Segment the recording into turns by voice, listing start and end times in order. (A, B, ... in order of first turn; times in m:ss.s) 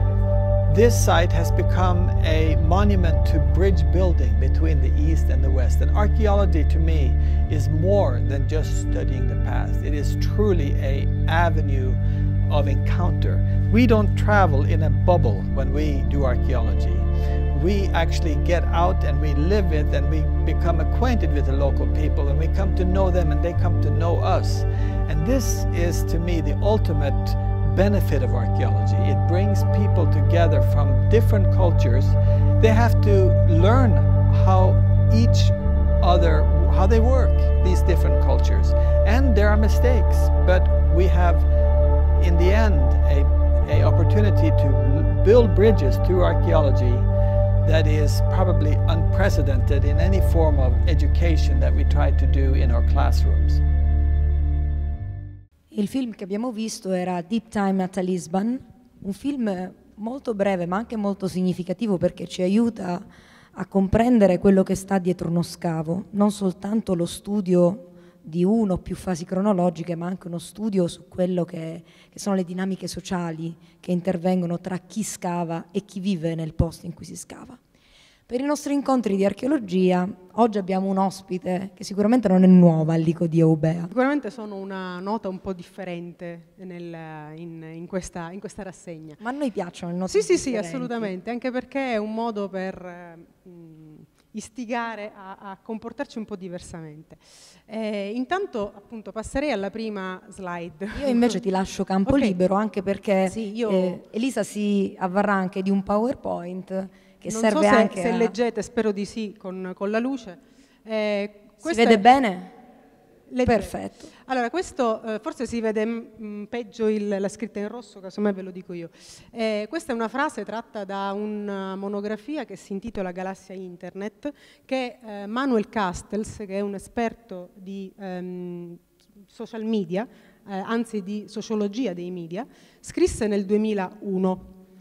0:00.7-0:41.5 A
0:42.2-0:47.1 A
0:47.6-0:53.6 A
0:55.7-1:17.6 B
1:18.3-1:23.9 B
1:23.9-1:29.2 C
1:29.2-1:31.1 B
1:30.1-1:41.4 C
1:40.9-1:48.3 B
1:42.0-1:42.4 C
1:43.2-1:44.0 C
1:47.2-1:52.1 C
1:51.6-1:52.6 B
1:53.3-2:14.6 C
1:53.4-1:54.1 B